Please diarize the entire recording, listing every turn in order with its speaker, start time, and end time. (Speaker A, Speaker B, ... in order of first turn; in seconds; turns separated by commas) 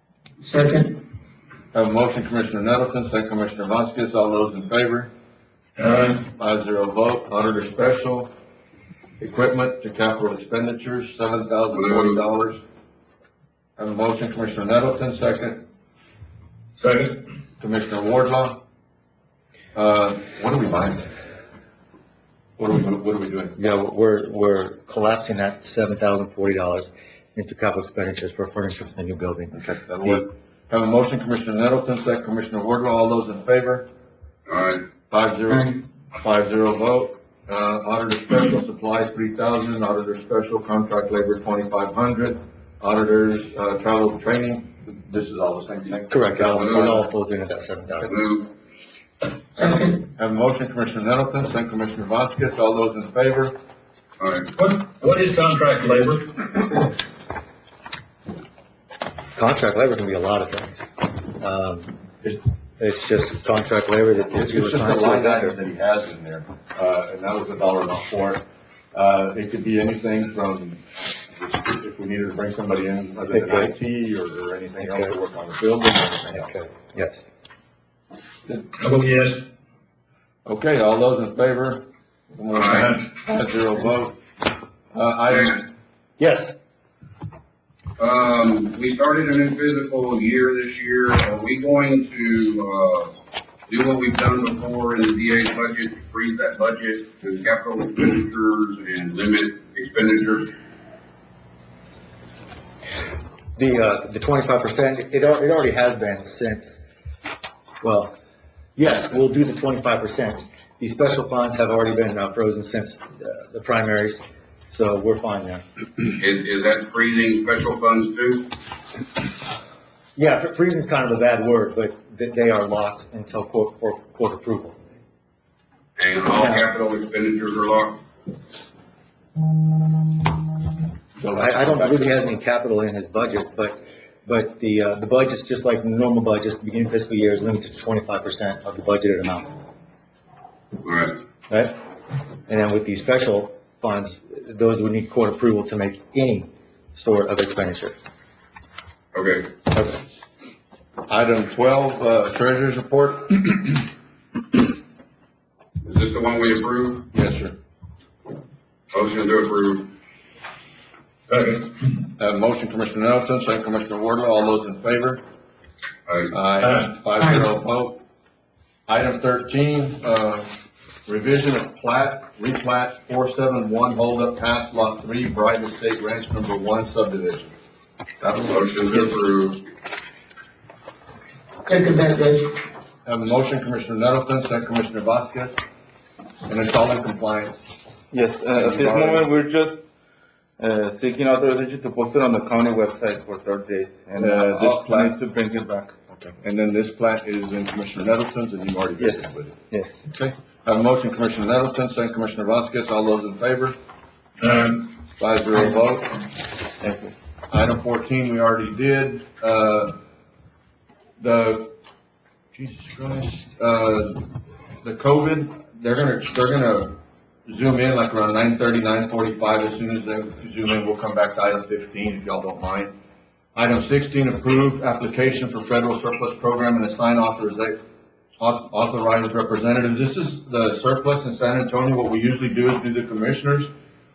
Speaker A: 0.4-1.0, Speaker B: 1.7-5.1, Speaker B: 6.4-8.3, Speaker B: 9.2-12.6, Speaker C: 11.7-12.2, Speaker B: 13.8-15.7, Speaker D: 16.8-17.2, Speaker B: 17.6-18.6, Speaker B: 19.8-21.1, Speaker B: 22.6-23.6, Speaker E: 23.6-30.2, Speaker B: 29.5-33.9, Speaker C: 34.5-34.8, Speaker B: 35.1-47.1, Speaker E: 46.1-48.2, Speaker C: 46.6-46.9, Speaker C: 48.1-48.5, Speaker A: 49.6-50.0, Speaker B: 50.2-53.5, Speaker C: 54.2-54.5, Speaker D: 54.6-56.1, Speaker E: 59.4-60.9, Speaker E: 61.4-62.0, Speaker E: 62.8-65.6, Speaker B: 64.3-76.5, Speaker E: 73.3-73.8, Speaker E: 74.8-75.2, Speaker E: 76.3-77.3, Speaker D: 78.8-79.3, Speaker B: 80.5-84.2, Speaker C: 82.5-82.9, Speaker B: 84.9-85.7, Speaker C: 85.3-85.6, Speaker E: 86.2-86.5, Speaker C: 88.0-93.1, Speaker C: 93.7-100.5, Speaker E: 103.6-106.8, Speaker E: 107.8-108.1, Speaker E: 108.8-115.6, Speaker C: 116.2-118.5, Speaker E: 120.2-124.8, Speaker C: 126.0-128.0, Speaker E: 126.4-126.6, Speaker B: 131.2-132.3, Speaker E: 131.3-139.6, Speaker C: 140.8-141.2, Speaker E: 141.5-141.8, Speaker E: 142.5-147.9, Speaker C: 149.1-149.5, Speaker B: 151.1-153.8, Speaker C: 155.8-157.1, Speaker B: 157.1-157.6, Speaker C: 158.9-159.9, Speaker D: 161.3-161.6, Speaker B: 162.2-165.2, Speaker C: 166.1-166.3, Speaker B: 166.3-168.0, Speaker D: 166.6-166.9, Speaker A: 167.2-167.5, Speaker B: 168.9-170.5, Speaker B: 171.1-177.5, Speaker B: 178.2-179.2, Speaker C: 178.5-179.6, Speaker A: 181.7-182.5, Speaker B: 183.1-185.6, Speaker B: 186.5-187.7, Speaker F: 188.1-189.8, Speaker B: 188.5-189.3, Speaker F: 190.6-196.3, Speaker B: 194.2-195.2, Speaker B: 196.4-199.6, Speaker F: 199.0-199.9, Speaker B: 200.1-203.8, Speaker D: 204.5-204.8, Speaker B: 205.1-206.3, Speaker B: 206.8-210.0, Speaker B: 211.2-211.8, Speaker B: 212.5-214.3, Speaker B: 214.8-222.9, Speaker B: 223.6-227.8, Speaker B: 228.4-233.7